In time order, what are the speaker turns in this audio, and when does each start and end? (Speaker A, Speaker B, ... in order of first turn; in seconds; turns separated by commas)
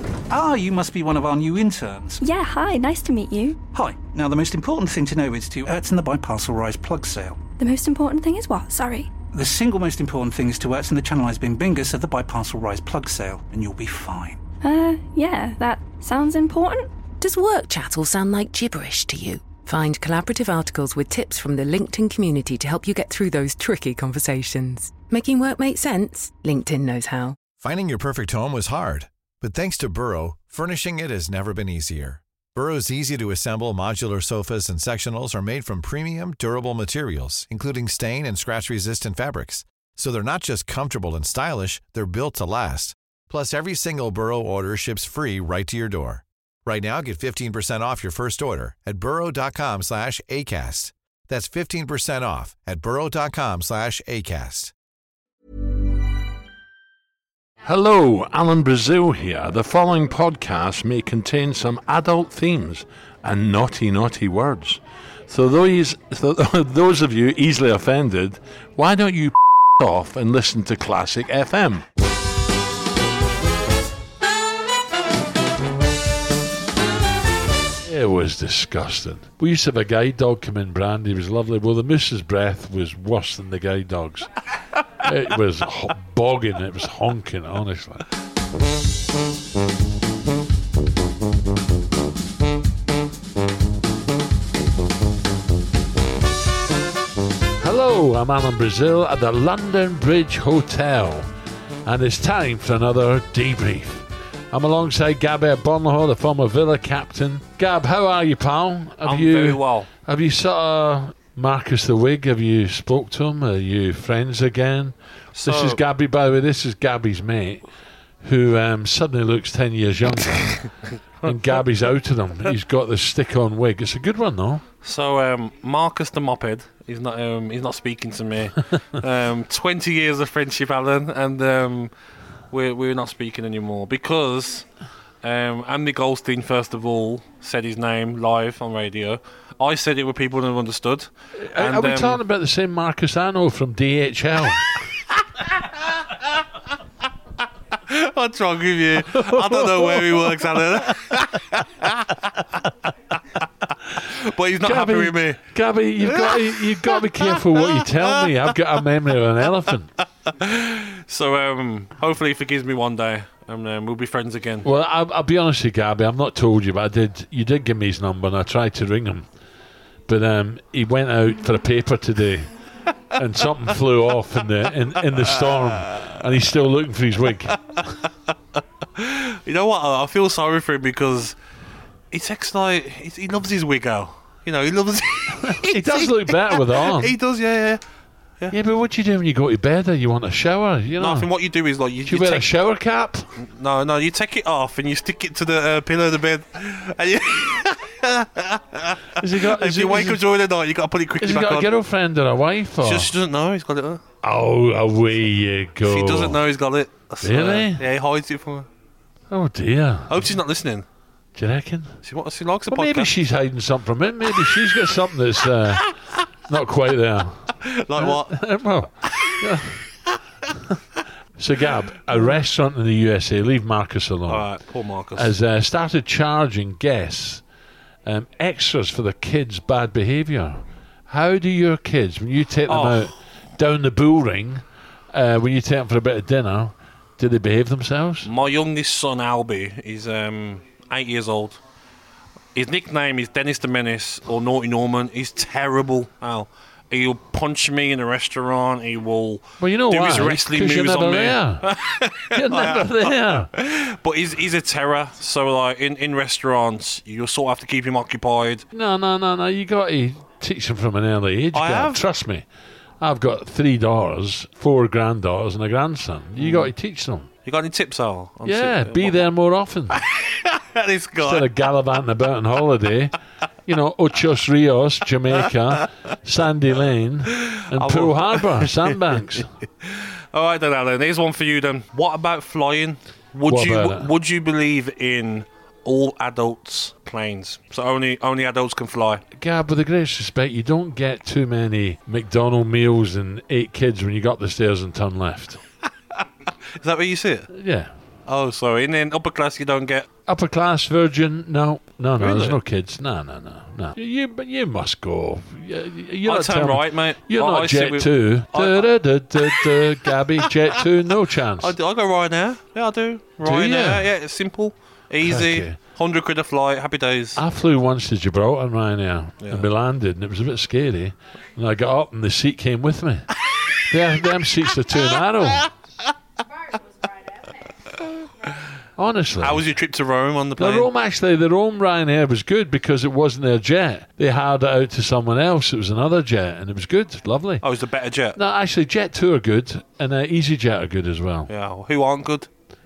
Speaker A: 0.3-2.2, Speaker B: 2.2-3.6, Speaker A: 3.7-7.4, Speaker B: 7.6-9.1, Speaker A: 9.3-14.4, Speaker B: 14.6-16.9, Speaker C: 17.2-27.4, Speaker D: 27.6-54.7, Speaker E: 57.6-71.9, Speaker E: 77.8-84.3, Speaker E: 85.0-88.0, Speaker E: 97.6-101.3, Speaker E: 101.8-117.6, Speaker F: 109.0-109.9, Speaker F: 115.3-115.8, Speaker E: 118.2-120.7, Speaker F: 120.8-121.5, Speaker E: 121.2-124.6, Speaker F: 124.8-131.9, Speaker F: 132.5-134.7, Speaker F: 135.2-142.2, Speaker E: 141.4-144.8, Speaker F: 147.7-152.4, Speaker E: 149.1-150.6, Speaker F: 154.0-155.4, Speaker E: 154.6-159.9, Speaker F: 156.0-158.2, Speaker F: 160.2-164.7, Speaker E: 164.6-169.3, Speaker E: 170.1-172.5, Speaker E: 173.1-177.8, Speaker F: 175.1-176.1, Speaker F: 178.9-181.3, Speaker F: 182.1-187.8, Speaker E: 185.3-187.2, Speaker E: 188.5-191.3, Speaker F: 191.0-192.5, Speaker E: 192.0-193.3, Speaker F: 193.3-201.7, Speaker E: 199.1-200.2, Speaker E: 201.2-203.1, Speaker F: 202.8-204.0, Speaker E: 204.2-206.4, Speaker F: 205.8-208.7, Speaker E: 207.2-207.8, Speaker E: 209.3-210.3, Speaker F: 210.1-210.8, Speaker E: 211.3-212.0, Speaker F: 212.0-213.1, Speaker E: 212.7-215.9, Speaker E: 216.5-219.8, Speaker F: 217.6-218.4, Speaker F: 219.0-219.4, Speaker E: 221.4-224.4, Speaker F: 224.3-225.3, Speaker E: 225.1-227.4, Speaker E: 228.0-238.3, Speaker F: 232.7-233.1, Speaker F: 238.2-241.6, Speaker F: 242.5-258.6, Speaker E: 249.6-251.7, Speaker E: 252.3-253.5, Speaker E: 258.7-262.4, Speaker F: 261.5-262.0, Speaker E: 263.0-267.3, Speaker F: 266.4-266.7, Speaker F: 267.4-269.2, Speaker E: 268.4-270.0, Speaker F: 270.0-271.5, Speaker E: 271.2-273.1, Speaker E: 273.6-279.5, Speaker F: 277.3-279.2, Speaker F: 279.8-289.2, Speaker E: 283.4-284.1, Speaker E: 289.3-295.6, Speaker F: 296.1-297.5, Speaker E: 297.5-297.9, Speaker F: 298.3-300.1, Speaker E: 300.3-311.8, Speaker F: 302.2-302.6, Speaker F: 306.2-310.8, Speaker F: 311.6-317.4, Speaker E: 313.4-314.1, Speaker E: 315.2-315.8, Speaker E: 317.4-323.3, Speaker F: 319.4-319.7, Speaker E: 323.9-325.7, Speaker E: 329.0-329.7, Speaker F: 329.4-330.9, Speaker E: 330.6-337.6, Speaker F: 337.6-338.4, Speaker E: 338.4-341.5, Speaker F: 341.5-342.5